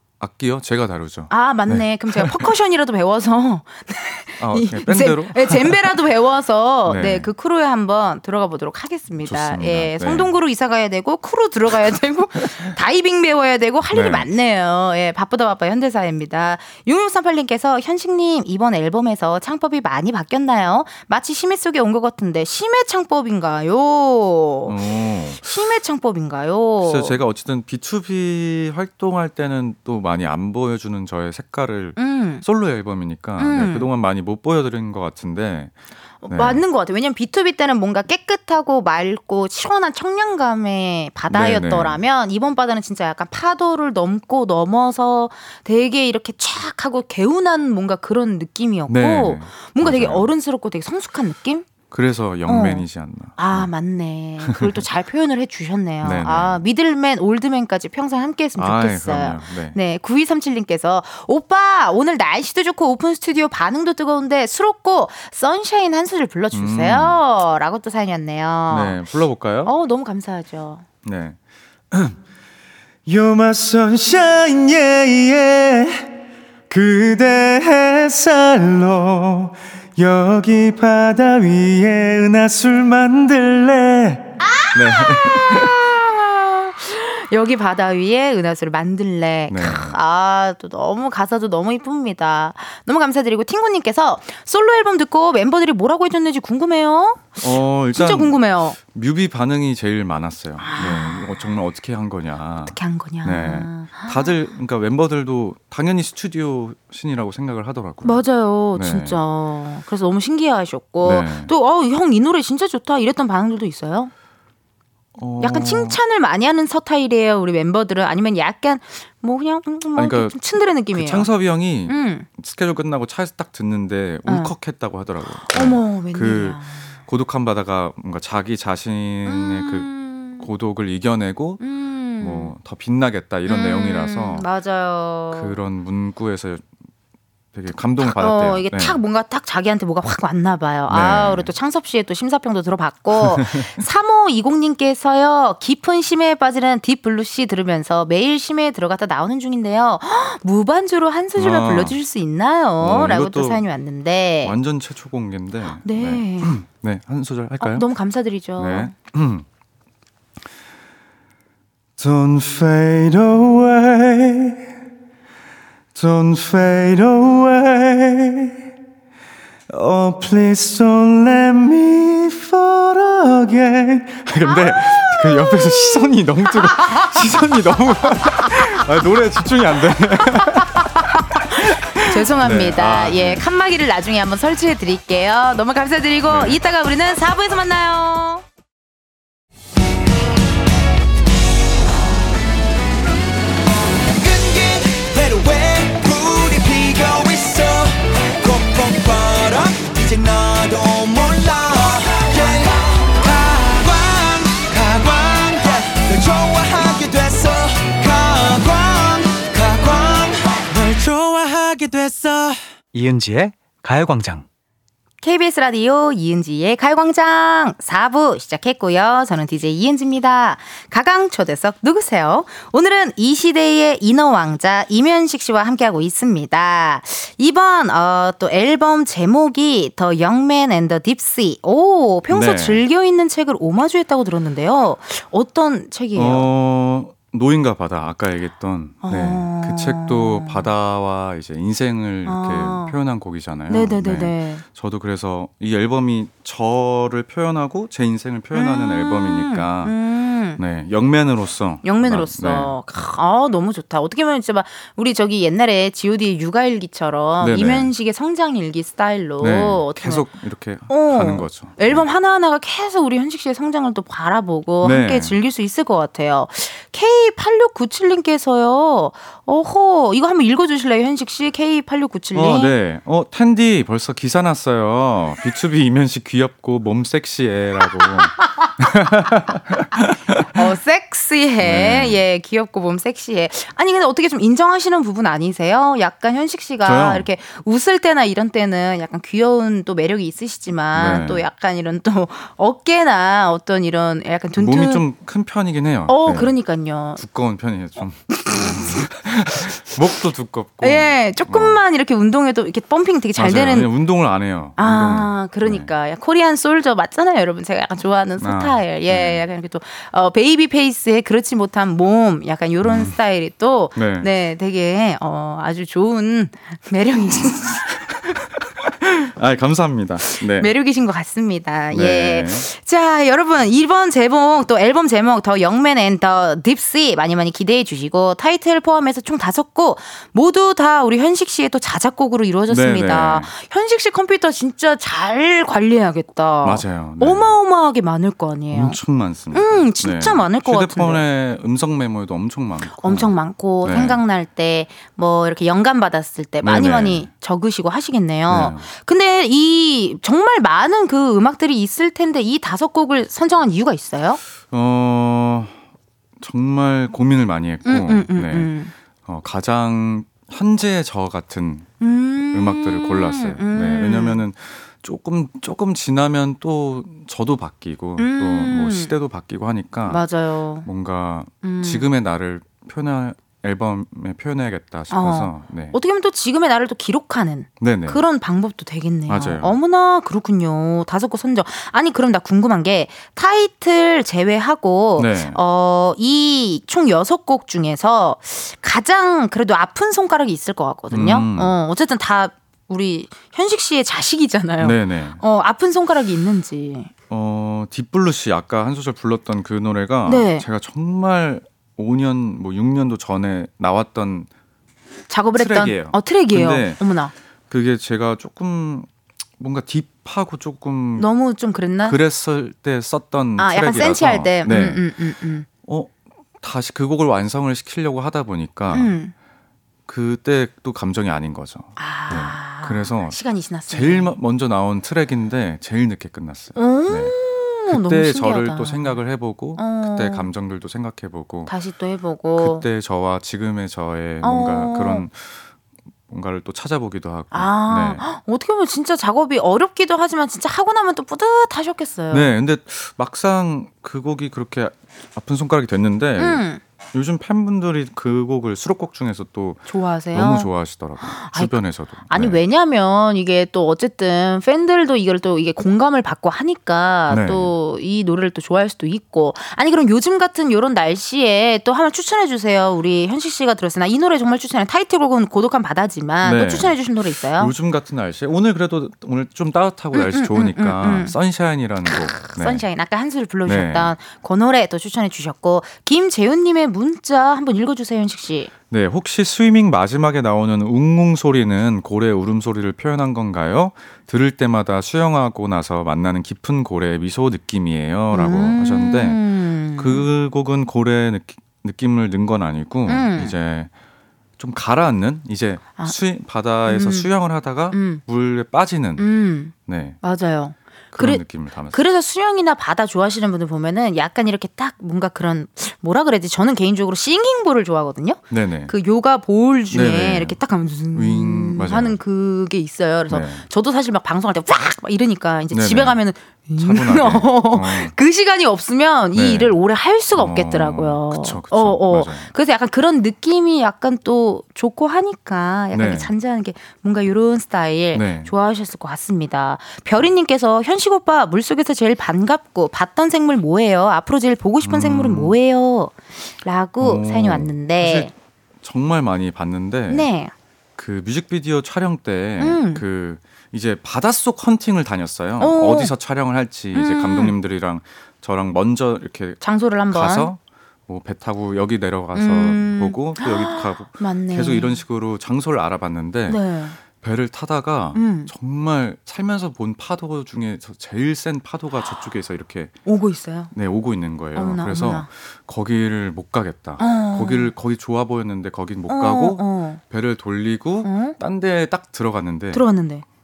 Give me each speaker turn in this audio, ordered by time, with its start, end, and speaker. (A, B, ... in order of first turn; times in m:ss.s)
0:00.2-0:02.5 A
0:01.3-0:24.8 B
0:04.4-0:06.0 A
0:06.8-0:07.3 A
0:09.2-0:10.3 A
0:13.9-0:14.3 A
0:24.6-0:25.4 A
0:25.4-0:27.2 B
0:26.8-0:35.7 A
0:32.0-0:32.4 B
0:33.4-0:33.9 B
0:36.2-0:51.7 B
0:36.3-0:36.6 A
0:41.3-0:42.0 A
0:48.9-0:50.3 A
0:51.9-0:53.7 A
0:52.5-0:52.8 B
0:53.4-1:09.0 B
0:54.4-0:54.8 A
0:56.0-0:56.6 A
0:58.6-0:59.8 A
1:06.5-1:07.2 A
1:08.7-1:09.7 A
1:09.6-1:10.8 B
1:11.0-1:11.4 A
1:11.9-1:12.2 A
1:13.0-1:16.1 A
1:16.7-1:25.8 A
1:24.6-1:38.8 B
1:29.5-1:30.0 A
1:37.4-1:48.2 A
1:40.6-1:41.5 B
1:42.6-1:44.3 B
1:48.0-1:54.1 B
1:48.7-1:49.2 A
1:51.0-1:51.5 A
1:55.2-1:56.0 A
1:55.4-2:01.3 B
1:59.9-2:11.6 A
2:01.8-2:02.3 B
2:04.2-2:04.5 B
2:05.4-2:06.9 B
2:09.2-2:10.5 B
2:11.6-2:12.5 B
2:12.2-2:14.4 A
2:13.5-2:15.6 B
2:15.3-2:16.7 A
2:17.5-2:19.0 A
2:18.0-2:34.5 B
2:20.9-2:21.5 A
2:23.2-2:23.8 A
2:31.4-2:32.0 A
2:32.8-2:33.6 A
2:34.4-2:37.8 A
2:35.8-2:36.6 B
2:37.6-2:38.9 B
2:38.6-2:39.4 A
2:42.0-2:44.6 A
2:45.9-2:48.5 A
2:49.7-3:01.2 A
2:55.2-2:56.1 B
2:56.7-2:57.2 B
3:01.1-3:08.4 B
3:01.8-3:03.4 A
3:06.3-3:06.6 A
3:14.0-3:32.6 C
3:35.2-3:56.5 B
3:52.3-3:52.8 A
3:56.1-4:10.0 A
3:59.0-4:00.7 B
4:02.2-4:03.0 B
4:03.7-4:04.6 B
4:08.5-4:10.6 B
4:10.6-4:12.7 A
4:11.8-4:20.2 B
4:17.4-4:17.9 A
4:19.4-4:22.0 A
4:20.9-4:32.8 B
4:24.8-4:25.4 A
4:32.3-4:40.4 A
4:40.5-4:55.0 B
4:41.6-4:42.2 A
4:46.8-4:47.3 A
4:50.9-4:51.4 A
4:54.6-4:56.5 A
4:56.1-4:57.2 B
4:57.2-5:01.8 A
4:58.4-4:59.0 B
5:00.8-5:03.9 B
5:03.4-5:05.9 A
5:04.8-5:17.9 B
5:08.4-5:09.4 A
5:12.8-5:13.1 A
5:13.9-5:14.3 A
5:19.0-5:20.7 A
5:20.2-5:39.0 B
5:21.9-5:22.7 A
5:32.7-5:33.5 A
5:36.6-5:37.5 A
5:38.7-5:44.2 A
5:39.5-5:41.2 B
5:42.9-5:54.4 B
5:46.6-5:47.3 A
5:48.5-5:48.9 A
5:54.7-5:55.8 A
5:56.4-5:58.7 A
5:57.8-5:58.9 B
5:59.2-6:01.9 A
6:02.0-6:04.4 B
6:02.5-6:10.2 A
6:08.2-6:09.1 B
6:10.1-6:10.9 B
6:10.8-6:16.0 A
6:11.6-6:12.1 B
6:15.1-6:37.1 B
6:17.8-6:18.2 A
6:19.3-6:19.7 A
6:25.2-6:25.6 A
6:31.1-6:31.7 A
6:34.8-6:35.4 A
6:37.3-6:44.5 A
6:40.2-6:40.6 B
6:45.3-6:47.3 B
6:45.5-6:47.0 A
6:47.7-6:51.3 A
6:51.2-6:52.2 B
6:52.0-6:55.0 A
6:53.6-6:55.7 B
6:55.8-6:59.1 A
6:58.9-6:59.3 B
7:00.1-7:07.4 A
7:02.0-7:04.3 B
7:06.8-7:09.2 B
7:07.9-7:11.7 A
7:09.8-7:10.5 B
7:11.7-7:12.8 B
7:12.6-7:15.6 A
7:14.4-7:15.2 B
7:16.3-7:18.2 A
7:17.5-7:22.5 B
7:22.3-7:32.6 A
7:26.4-7:26.8 B
7:29.9-7:31.8 B
7:32.3-7:47.7 B
7:37.3-7:37.7 A
7:46.4-7:47.0 A
7:47.5-7:52.8 A
7:50.1-7:51.4 B
7:52.0-7:58.7 B
7:53.6-7:54.1 A
7:58.9-8:09.4 A
8:08.3-8:10.3 B
8:09.9-8:13.9 A
8:13.1-8:13.5 B
8:14.6-8:20.2 A
8:16.8-8:17.3 B
8:17.9-8:18.2 B
8:19.2-8:58.3 B
8:21.1-8:22.0 A
8:28.5-8:28.9 A
8:29.9-8:30.6 A
8:31.1-8:32.2 A
8:33.3-8:33.7 A
8:35.7-8:36.2 A
8:36.8-8:38.2 A
8:39.3-8:39.8 A
8:40.3-8:42.5 A
8:45.9-8:46.3 A
8:48.1-8:48.5 A
8:54.8-8:55.5 A
8:57.0-9:00.3 A
9:00.1-9:00.5 B
9:01.0-9:23.0 A
9:02.6-9:03.0 B
9:05.6-9:06.1 B
9:06.9-9:07.5 B
9:09.6-9:10.5 B
9:12.3-9:15.0 B
9:16.5-9:17.0 B
9:18.1-9:18.5 B
9:23.0-9:23.7 B
9:23.7-9:32.8 A
9:24.5-9:25.3 B
9:27.0-9:27.7 B
9:29.1-9:30.0 B
9:31.0-9:31.4 B
9:32.7-9:33.2 B